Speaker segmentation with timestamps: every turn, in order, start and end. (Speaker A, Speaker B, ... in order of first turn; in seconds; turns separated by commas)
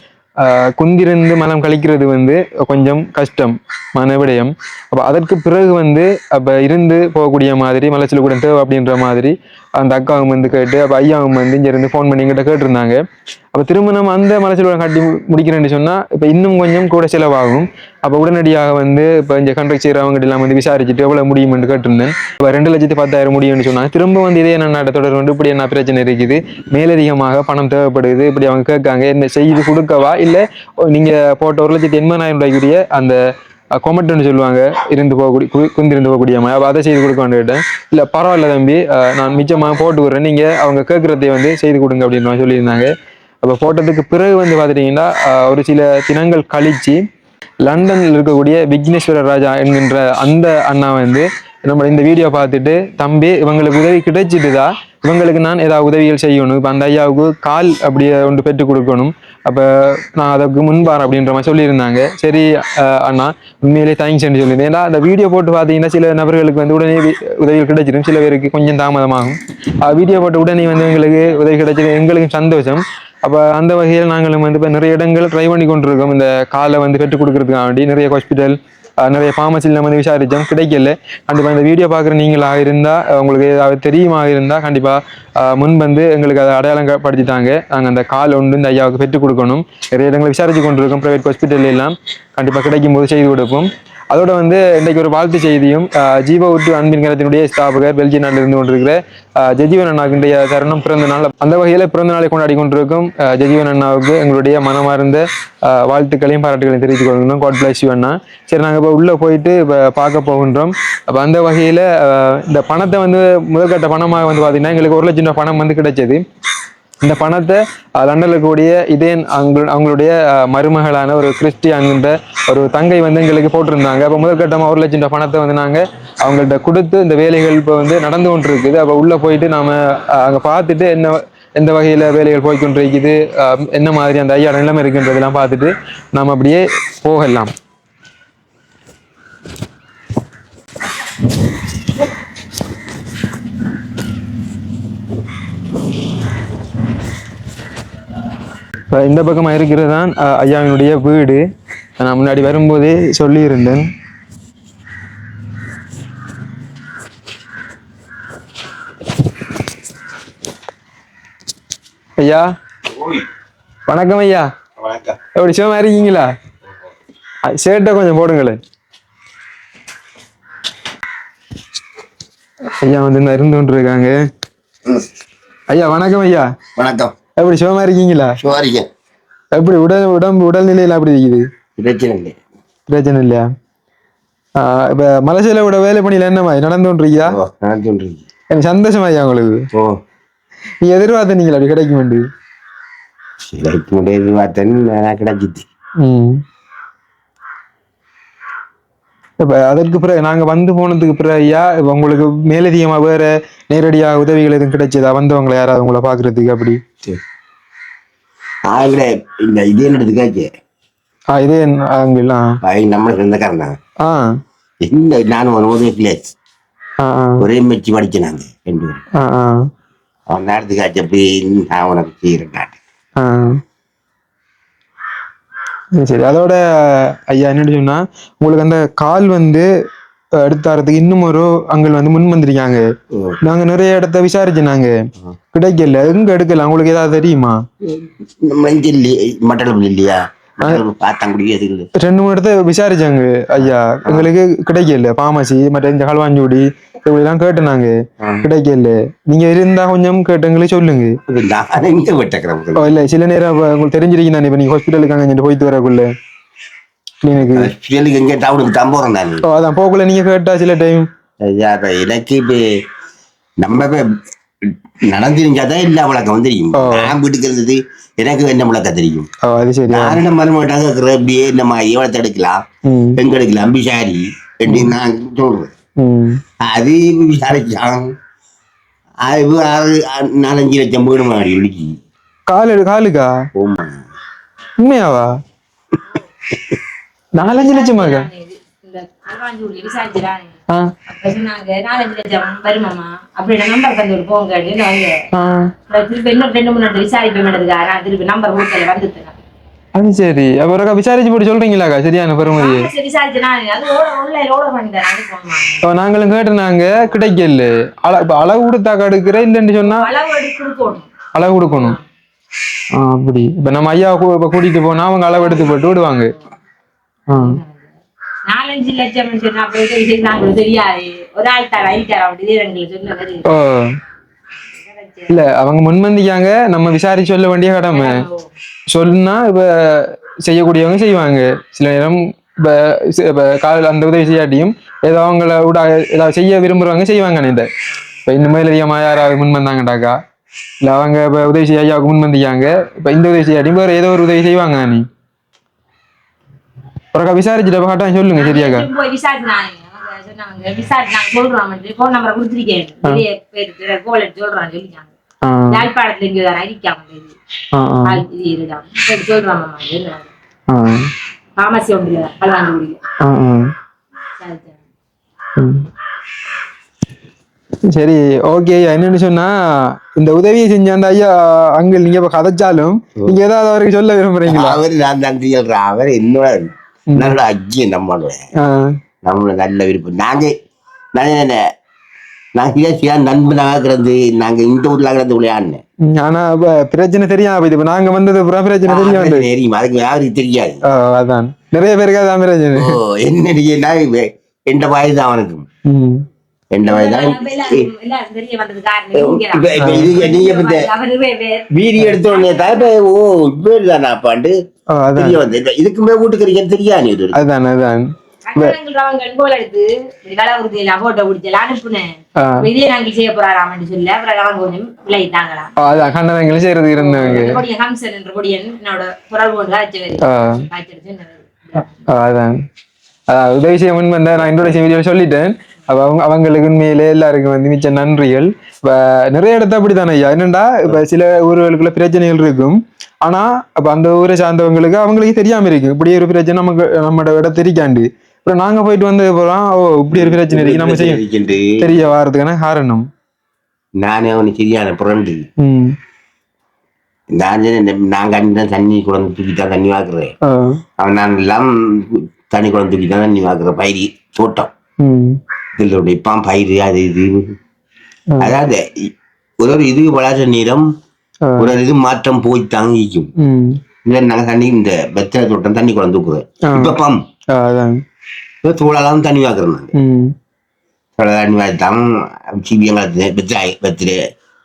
Speaker A: 0.4-13.0, Speaker A: 13.5-33.2, Speaker A: 33.8-42.9, Speaker A: 43.4-47.0, Speaker A: 47.6-116.2, Speaker A: 117.0-137.5, Speaker A: 148.9-151.4, Speaker A: 152.0-153.9, Speaker A: 162.2-162.5, Speaker A: 163.9-164.5, Speaker B: 164.8-165.1, Speaker A: 165.3-166.3, Speaker A: 167.5-168.6, Speaker A: 172.8-174.2, Speaker A: 175.7-176.5, Speaker B: 176.8-177.1, Speaker A: 177.4-178.4, Speaker B: 178.4-178.9, Speaker A: 179.5-181.4, Speaker B: 181.8-182.4, Speaker A: 182.9-183.4, Speaker A: 184.6-187.3, Speaker B: 187.3-188.2, Speaker A: 188.5-189.6, Speaker A: 190.8-192.2, Speaker B: 193.5-195.7, Speaker A: 196.0-196.4, Speaker A: 199.4-206.8, Speaker B: 208.7-210.5, Speaker A: 211.3-212.5, Speaker B: 212.6-213.8, Speaker A: 214.0-214.3, Speaker B: 214.8-216.3, Speaker A: 217.0-217.5, Speaker B: 217.4-219.0, Speaker A: 219.1-219.6, Speaker B: 220.3-222.7, Speaker A: 223.2-223.6, Speaker A: 225.9-229.7, Speaker A: 230.4-232.8, Speaker B: 233.1-233.4, Speaker A: 233.4-234.9, Speaker A: 235.5-237.6, Speaker B: 237.8-241.9, Speaker A: 242.0-251.2, Speaker B: 243.6-244.3, Speaker B: 251.3-252.9, Speaker A: 252.8-256.1, Speaker A: 257.2-257.7, Speaker B: 257.4-259.4, Speaker A: 259.4-261.1, Speaker B: 261.4-262.6, Speaker B: 263.6-264.0, Speaker B: 264.7-269.3, Speaker A: 266.7-267.1, Speaker A: 269.4-270.2, Speaker B: 269.9-272.6, Speaker A: 272.8-273.2, Speaker B: 273.1-275.7, Speaker A: 274.7-274.9, Speaker A: 276.0-276.4, Speaker B: 276.6-278.1, Speaker B: 279.2-282.0, Speaker A: 282.5-283.3, Speaker B: 283.6-284.0, Speaker A: 284.8-285.3, Speaker A: 287.4-288.3, Speaker C: 287.4-290.6, Speaker C: 291.1-295.2, Speaker A: 295.3-295.7, Speaker C: 295.9-299.4, Speaker A: 299.9-302.9, Speaker C: 302.5-305.9, Speaker A: 305.8-310.0, Speaker C: 309.8-311.1, Speaker A: 311.3-311.9, Speaker A: 312.9-316.3, Speaker C: 315.3-316.4, Speaker A: 317.3-317.6, Speaker C: 317.3-317.9, Speaker C: 318.5-323.4, Speaker A: 323.5-323.9, Speaker C: 324.7-325.4, Speaker A: 325.3-328.2, Speaker C: 327.9-328.5, Speaker A: 328.9-337.7, Speaker A: 338.2-340.1, Speaker A: 340.8-345.0, Speaker A: 347.1-348.9, Speaker C: 348.3-355.1, Speaker A: 355.4-355.9, Speaker C: 355.7-357.3, Speaker A: 357.7-358.2, Speaker C: 358.0-360.3, Speaker A: 360.7-361.1, Speaker C: 361.6-363.0, Speaker A: 363.2-363.7, Speaker C: 364.4-364.8, Speaker A: 365.6-365.8, Speaker A: 367.9-374.8, Speaker B: 374.5-378.4, Speaker A: 377.1-377.4, Speaker A: 378.6-378.9, Speaker B: 379.2-380.5, Speaker B: 381.1-381.6, Speaker B: 382.6-385.8, Speaker A: 386.1-389.5, Speaker B: 388.9-390.8, Speaker A: 390.8-393.0, Speaker B: 392.7-395.6, Speaker A: 395.9-396.2, Speaker B: 396.7-397.9, Speaker C: 396.8-401.7, Speaker B: 399.1-400.9, Speaker A: 399.8-400.3, Speaker B: 401.7-404.5, Speaker C: 402.3-402.9, Speaker A: 404.9-405.4, Speaker B: 405.1-407.4, Speaker A: 407.3-408.7, Speaker C: 408.4-415.7, Speaker A: 412.4-412.6, Speaker A: 415.8-417.6, Speaker C: 417.0-422.1, Speaker A: 420.2-420.6, Speaker A: 422.1-422.6, Speaker A: 423.3-441.2, Speaker B: 440.1-441.9, Speaker A: 441.8-443.1, Speaker B: 444.0-445.4, Speaker A: 445.6-445.9, Speaker B: 447.4-450.3, Speaker A: 450.4-450.8, Speaker B: 451.0-454.7, Speaker A: 455.0-455.4, Speaker B: 455.8-457.5, Speaker A: 458.3-458.6, Speaker B: 458.4-460.9, Speaker A: 461.4-461.7, Speaker B: 461.6-463.3, Speaker A: 463.4-463.8, Speaker B: 464.0-467.2, Speaker A: 466.7-467.0, Speaker A: 467.5-468.0, Speaker B: 468.6-469.9, Speaker A: 469.9-470.3, Speaker B: 471.2-474.2